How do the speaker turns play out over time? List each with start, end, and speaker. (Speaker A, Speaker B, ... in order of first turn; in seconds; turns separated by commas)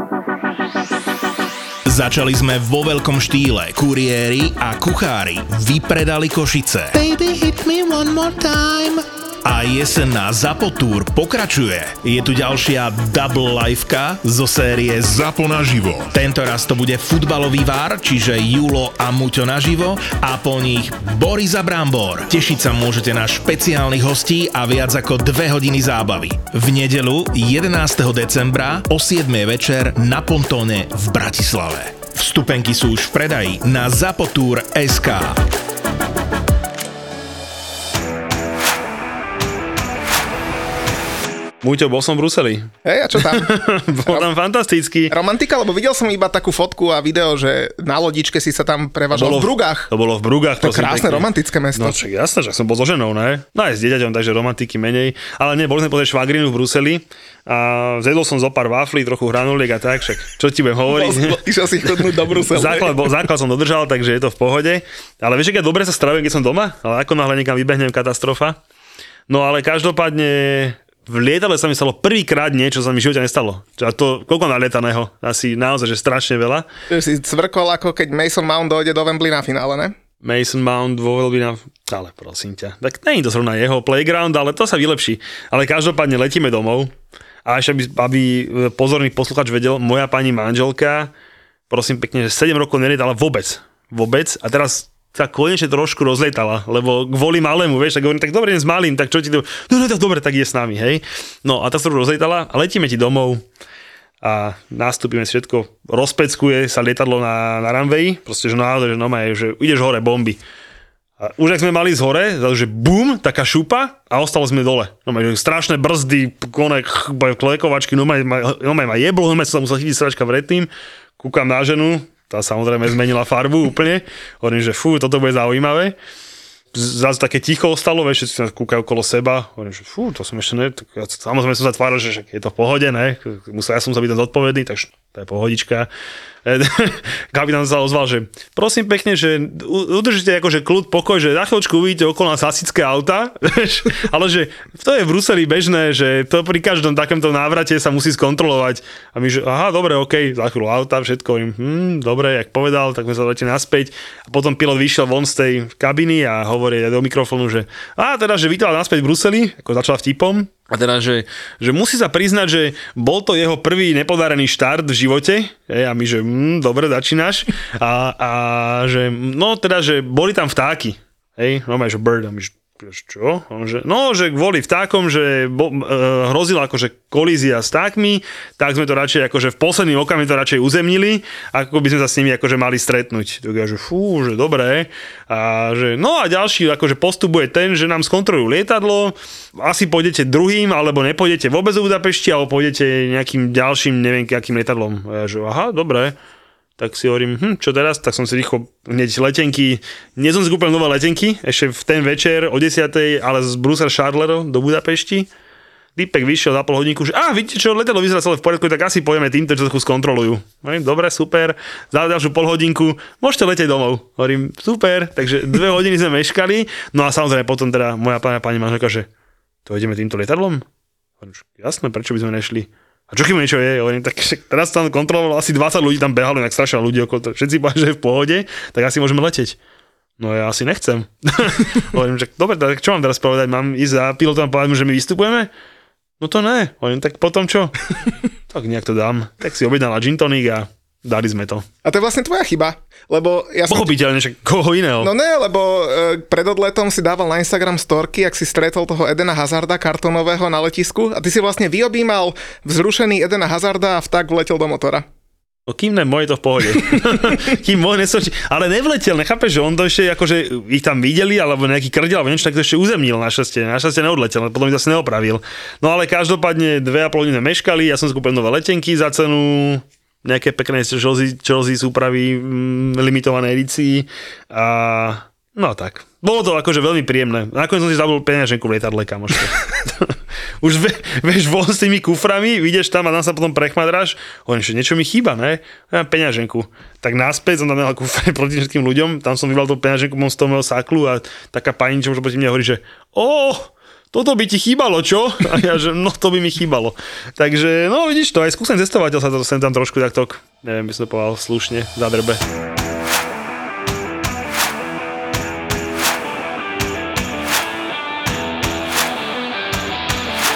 Speaker A: 1.9-35.4, Speaker B: 41.6-45.1, Speaker C: 42.8-44.3, Speaker C: 45.1-49.9, Speaker B: 49.1-61.4, Speaker C: 50.6-52.0, Speaker C: 60.9-63.1, Speaker B: 62.5-68.6, Speaker B: 69.3-76.7, Speaker C: 76.9-80.0, Speaker B: 80.2-86.9, Speaker B: 87.4-91.1, Speaker B: 91.7-103.4, Speaker B: 104.2-110.4, Speaker B: 111.2-126.0, Speaker B: 126.7-135.9, Speaker B: 136.4-196.2, Speaker B: 196.8-205.3, Speaker B: 205.9-219.1, Speaker B: 219.7-220.6, Speaker B: 221.2-229.6, Speaker B: 230.2-235.5, Speaker B: 236.2-237.7, Speaker B: 238.5-241.7, Speaker C: 241.8-243.9, Speaker B: 243.7-245.1, Speaker C: 245.0-255.1, Speaker B: 255.7-302.4